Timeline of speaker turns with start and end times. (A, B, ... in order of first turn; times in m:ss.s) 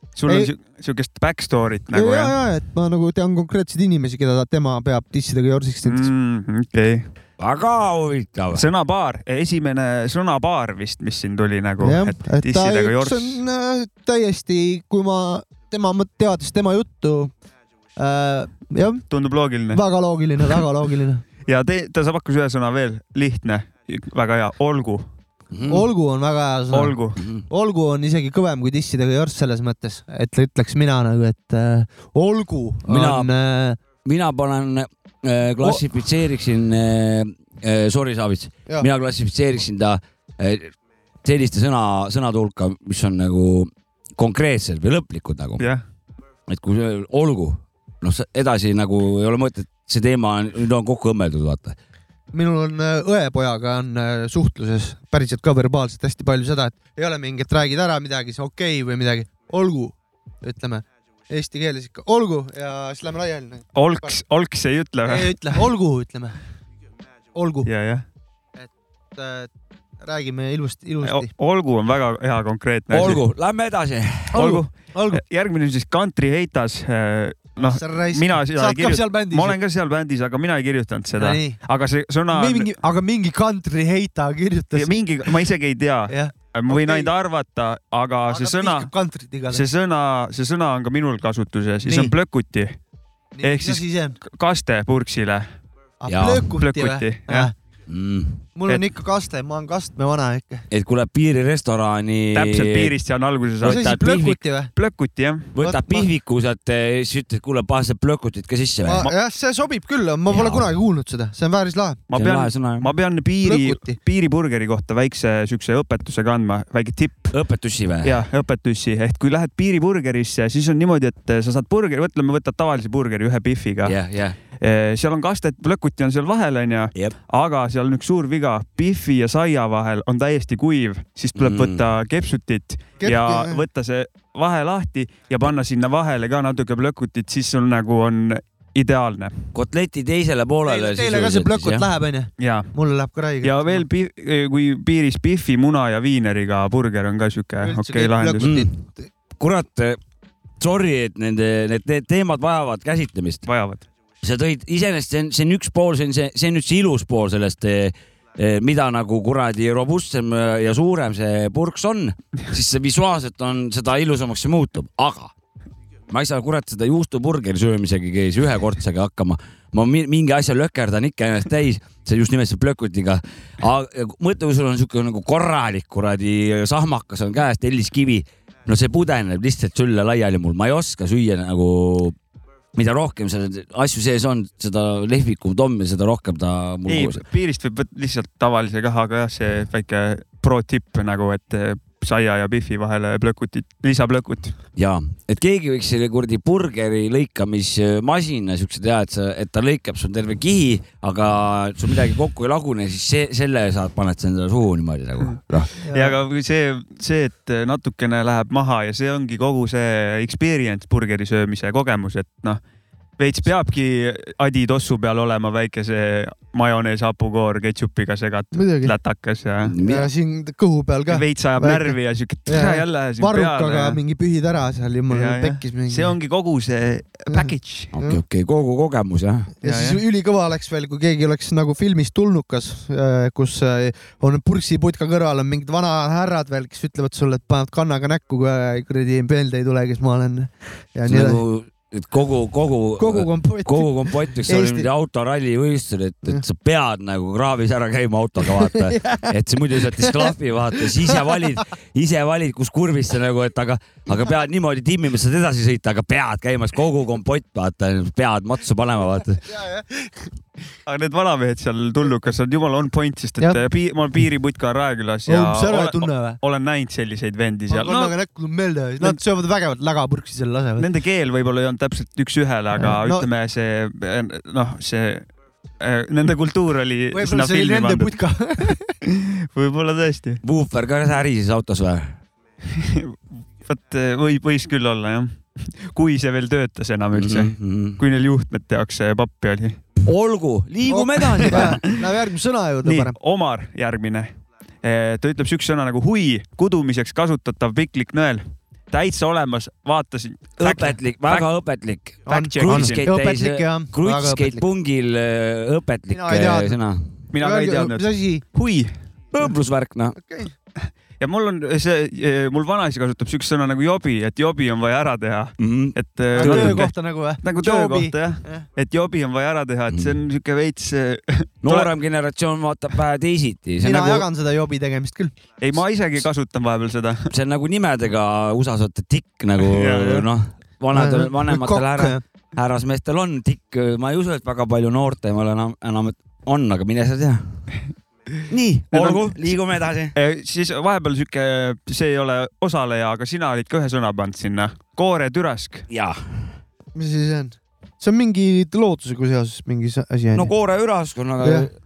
0:00.2-0:02.3 A
0:01.9-0:06.1 B
0:05.8-0:07.0 A
0:07.4-0:08.6 C
0:08.5-0:13.4 A
0:11.8-0:17.3 B
0:18.0-0:19.0 B
0:19.1-0:19.8 A
0:19.7-0:21.2 B
0:21.4-0:25.0 A
0:25.5-0:25.9 C
0:25.7-0:27.0 B
0:26.7-0:27.2 A
0:27.2-0:27.4 C
0:27.5-0:33.8 B
0:32.9-0:33.3 C
0:34.0-0:40.7 C
0:41.2-0:45.6 C
0:46.5-0:51.8 C
0:52.3-1:04.1 B
1:03.8-1:05.6 A
1:05.0-1:06.4 B
1:07.3-1:07.7 B
1:07.6-1:08.0 A
1:08.6-1:09.5 B
1:10.0-1:11.3 B
1:11.0-1:13.2 A
1:12.9-1:14.4 C
1:14.3-1:15.2 B
1:14.3-1:22.7 A
1:17.6-1:19.6 B
1:21.2-1:21.6 B
1:22.3-1:24.9 B
1:24.7-1:28.9 A
1:26.1-1:27.1 B
1:28.3-1:29.6 B
1:29.5-1:32.8 A
1:31.8-1:32.1 B
1:33.4-1:34.2 B
1:33.4-1:35.5 A
1:36.0-1:37.5 B
1:36.1-1:36.5 C
1:36.5-1:37.5 A
1:37.9-1:38.4 C
1:38.6-1:40.6 B
1:40.7-1:42.9 C
1:42.3-1:43.9 A
1:43.6-1:44.4 C
1:43.6-1:44.7 B
1:44.7-1:45.5 A
1:45.5-1:49.0 C
1:45.6-1:46.1 B
1:48.8-1:52.0 B
1:50.3-1:50.7 C
1:52.1-1:57.3 A
1:52.1-1:52.9 C
1:53.4-1:54.0 B
1:57.3-1:58.2 C
1:58.0-2:04.0 A
2:03.8-2:04.4 C
2:04.6-2:19.5 A
2:11.4-2:11.8 C
2:13.0-2:13.6 B
2:19.5-2:21.8 C
2:20.6-2:23.8 B
2:22.4-2:22.7 A
2:23.4-2:28.5 A
2:27.6-2:29.1 B
2:28.4-2:28.7 C
2:29.4-2:30.0 C
2:30.6-2:33.4 C
2:33.4-2:33.8 A
2:34.2-2:45.3 C
2:46.1-3:02.2 C
3:02.7-3:07.2 C
3:06.9-3:14.5 A
3:14.8-3:25.7 C
3:25.2-3:32.6 A
3:25.8-3:26.1 B
3:33.2-3:39.7 A
3:38.5-3:38.9 B
3:39.6-3:40.1 C
3:39.8-3:41.9 B
3:41.1-3:44.0 A
3:42.5-3:46.1 B
3:45.1-3:47.9 A
3:47.3-3:48.2 B
3:47.9-3:49.5 C
3:49.6-4:01.4 B
3:49.6-3:50.0 A
4:01.0-4:19.5 C
4:03.0-4:04.9 B
4:08.6-4:09.3 B
4:10.0-4:10.3 B
4:19.5-4:20.1 B
4:20.8-4:28.1 A
4:25.3-4:26.4 B
4:27.7-4:30.9 B
4:30.8-4:35.3 A
4:32.8-4:33.3 B
4:35.8-4:38.1 A
4:37.1-4:38.9 B
4:39.0-4:40.4 A
4:40.4-4:42.1 C
4:42.6-4:49.8 A
4:47.1-4:48.0 C
4:50.0-4:51.8 C
4:50.9-4:53.1 B
4:51.5-4:51.9 A
4:52.8-4:54.3 A
4:54.8-5:01.5 A
5:00.6-5:07.1 C
5:02.3-5:04.6 B
5:02.3-5:03.0 A
5:06.1-5:06.8 B
5:07.3-5:08.9 A
5:07.4-5:08.4 B
5:09.3-5:10.2 C
5:10.2-5:10.5 B
5:11.2-5:21.9 A
5:15.6-5:16.9 C
5:16.3-5:18.6 B
5:19.9-5:20.2 C
5:21.6-5:24.3 C
5:23.8-5:25.3 B
5:25.6-5:27.3 A
5:27.3-5:37.4 C
5:29.6-5:30.2 A
5:30.9-5:32.2 B
5:38.5-5:40.1 C
5:38.9-5:39.4 A
5:40.1-5:45.8 A
5:45.9-5:46.5 C
5:46.9-5:50.5 B
5:50.3-5:51.7 C
5:51.4-5:51.7 B